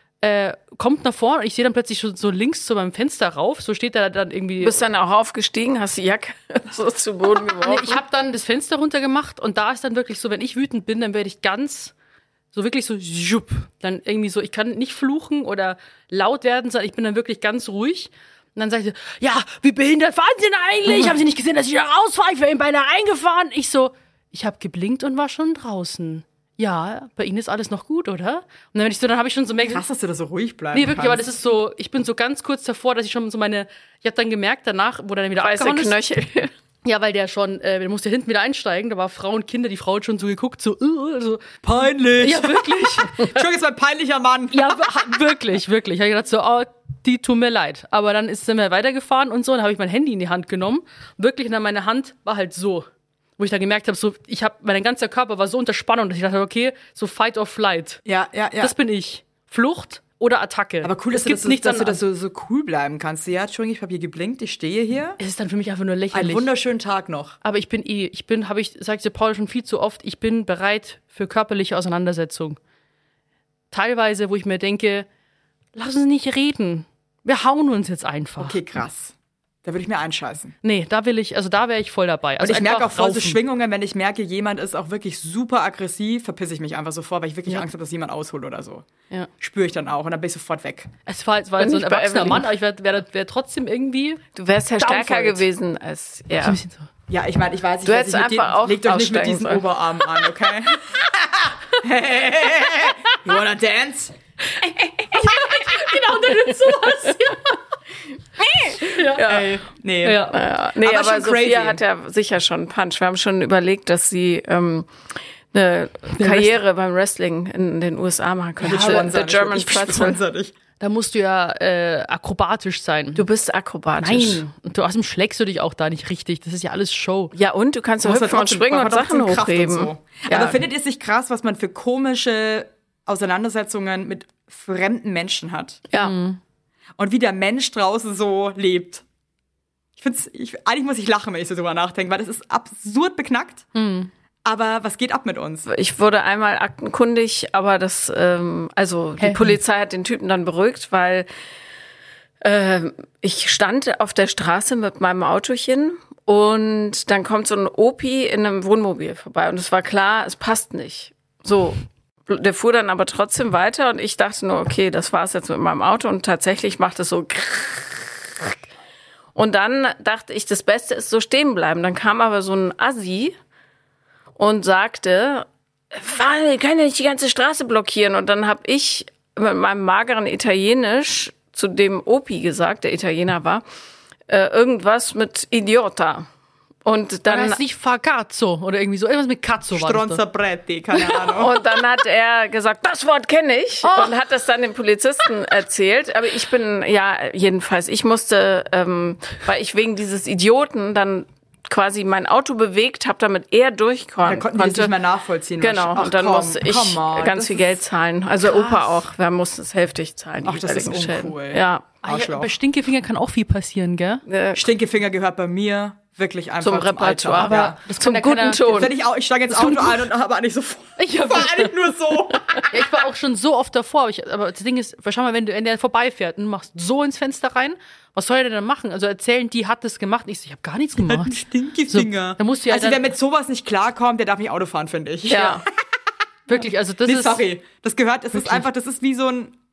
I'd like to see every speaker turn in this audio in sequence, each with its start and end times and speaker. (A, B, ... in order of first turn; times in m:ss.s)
0:00.2-0:04.8 A
0:04.6-0:08.0 B
0:07.5-0:11.9 A
0:12.5-0:29.8 A
0:29.6-0:31.3 C
0:30.7-0:35.9 A
0:35.4-0:36.5 B
0:36.8-0:41.6 A
0:41.6-0:45.0 C
0:42.2-0:43.4 A
0:44.5-0:52.9 A
0:53.4-0:58.0 A
0:58.0-0:58.7 C
0:58.6-1:02.0 A
1:00.8-1:05.2 C
1:05.2-1:06.5 A
1:06.1-1:07.4 C
1:07.4-1:12.6 A
1:13.7-1:15.0 A
1:15.7-1:18.6 A
1:18.4-1:20.5 C
1:20.6-1:23.4 A
1:22.4-1:28.8 C
1:29.4-1:30.9 C
1:31.0-1:34.2 A
1:31.6-1:32.5 B
1:34.3-1:36.6 B
1:34.8-1:35.4 A
1:36.4-1:36.9 A
1:37.1-1:44.1 C
1:37.8-1:39.6 B
1:45.1-1:47.6 A
1:48.4-1:49.4 B
1:48.7-1:49.4 A
1:49.2-1:51.8 C
1:50.0-1:50.4 A
1:50.3-2:00.2 B
1:56.2-1:56.6 A
1:58.6-2:00.5 C
1:58.6-1:59.1 A
2:00.8-2:03.2 A
2:03.2-2:04.4 B
2:04.0-2:07.3 A
2:07.3-2:10.6 B
2:08.0-2:15.8 C
2:16.0-2:16.4 A
2:17.0-2:19.0 C
2:20.0-2:23.7 C
2:23.7-2:24.1 A
2:24.4-2:25.7 C
2:25.6-2:31.3 B
2:29.2-2:29.6 A
2:32.4-2:48.6 B
2:49.3-2:53.3 B
2:54.4-3:03.6 B
3:04.3-3:06.3 B
3:06.8-3:07.6 B
3:07.3-3:10.2 A
3:09.7-3:11.6 C
3:11.3-3:24.9 B
3:13.8-3:14.1 A
3:24.2-3:27.8 C
3:25.6-3:31.8 B
3:28.4-3:28.9 A
3:30.4-3:32.5 C
3:32.0-3:34.2 A
3:34.2-3:34.6 B
3:34.5-3:37.8 C
3:36.6-3:38.9 B
3:37.4-3:38.9 A
3:38.6-3:42.8 C
3:39.5-3:40.1 A
3:41.0-3:41.8 A
3:42.6-3:53.1 A
3:51.0-3:55.7 C
3:55.3-3:55.6 B
3:56.5-3:57.4 A
3:56.5-3:59.6 C
3:58.3-3:58.6 A